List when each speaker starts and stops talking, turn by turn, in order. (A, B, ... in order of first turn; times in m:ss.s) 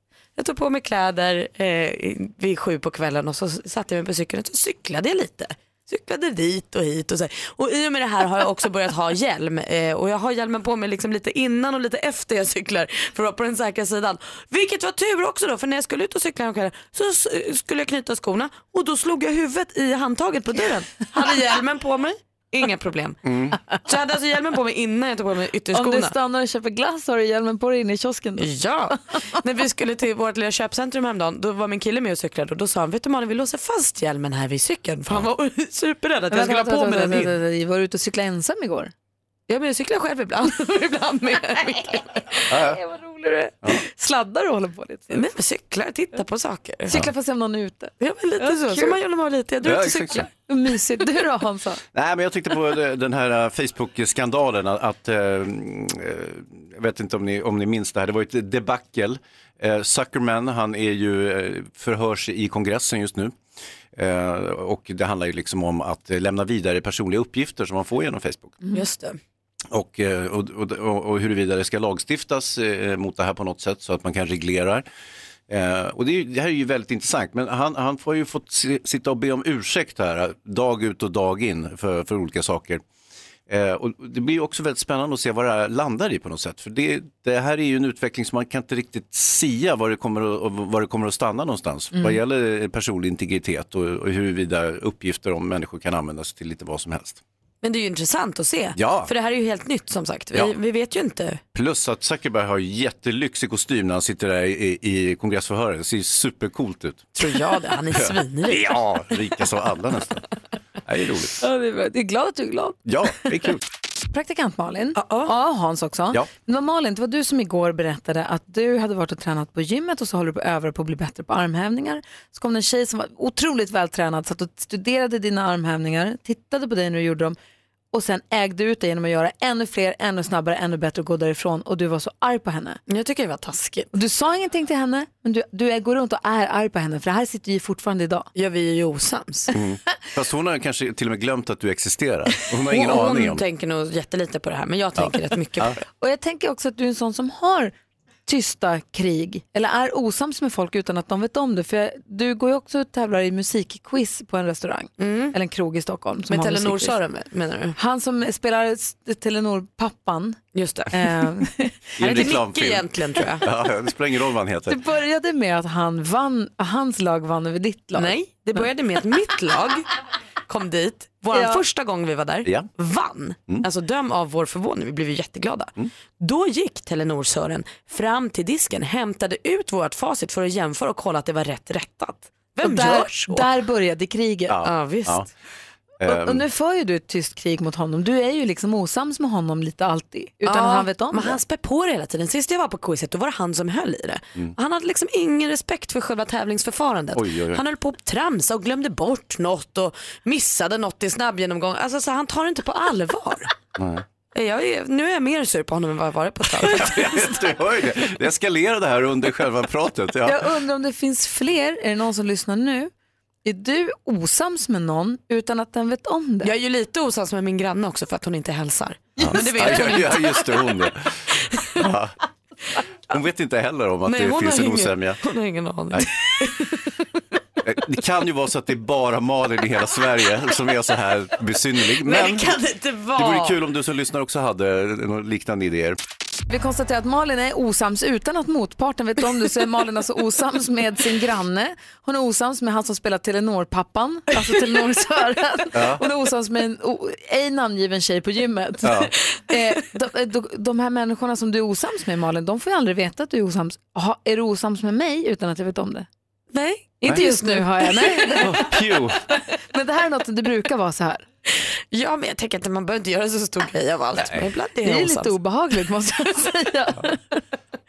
0:00.4-0:23.2 A
0:23.2-0:23.6 B
0:23.7-0:26.1 A
0:25.7-0:28.5 C
0:28.4-0:37.3 A
0:36.3-0:38.9 C
0:39.5-0:42.4 A
0:42.5-0:42.8 B
0:42.5-0:45.2 C
0:45.1-0:46.9 A
0:46.9-0:47.1 B
0:46.9-0:48.9 C
0:48.0-0:50.3 A
0:49.6-0:50.3 B
0:50.5-0:51.8 C
0:51.9-1:03.3 B
1:03.9-1:08.6 B
1:08.7-1:09.2 A
1:09.7-1:14.8 B
1:15.5-1:22.8 B
1:23.5-1:37.2 B
1:37.6-1:41.4 A
1:38.8-1:39.1 B
1:41.5-1:47.0 B
1:47.2-1:48.8 A
1:47.9-1:50.2 B
1:50.8-1:51.4 B
1:51.4-1:52.8 C
1:52.8-1:53.6 B
1:54.1-2:07.4 C
1:55.0-1:55.3 A
2:07.9-2:12.8 C
2:12.9-2:13.9 A
2:13.9-2:18.3 C
2:18.3-2:19.5 A
2:19.5-2:23.4 B
2:22.6-2:25.8 A
2:25.0-2:25.8 B
2:26.0-2:27.7 C
2:28.2-2:37.0 C
2:35.0-2:35.3 A
2:36.3-2:37.8 A
2:37.8-2:40.4 C
2:40.5-2:41.3 A
2:40.9-2:41.8 C
2:42.0-2:44.8 B
2:42.0-2:43.5 A
2:44.7-2:48.6 C
2:47.9-2:49.9 A
2:50.5-3:03.4 A
2:51.3-2:51.6 C
3:02.6-3:04.5 C
3:04.5-3:05.3 B
3:04.6-3:05.2 A
3:06.0-3:06.4 B
3:06.0-3:11.4 C
3:10.4-3:23.5 A
3:17.1-3:17.6 B
3:23.8-3:24.0 B
3:24.3-3:27.5 A
3:26.6-3:30.4 B
3:30.2-3:32.9 C
3:33.4-3:36.5 C
3:36.4-3:40.6 A
3:39.2-3:41.1 B
3:41.8-3:42.1 B
3:43.1-3:45.2 B
3:44.0-3:46.9 A
3:47.6-3:52.6 B
3:52.0-3:53.6 A
3:53.1-3:56.0 B
3:56.5-4:16.1 C
4:05.7-4:06.0 B
4:08.8-4:09.1 B
4:16.5-4:18.4 A
4:17.0-4:18.7 C
4:18.4-4:19.2 B
4:19.7-4:21.2 C
4:21.9-4:25.3 A
4:24.2-4:24.5 B
4:24.8-4:27.2 C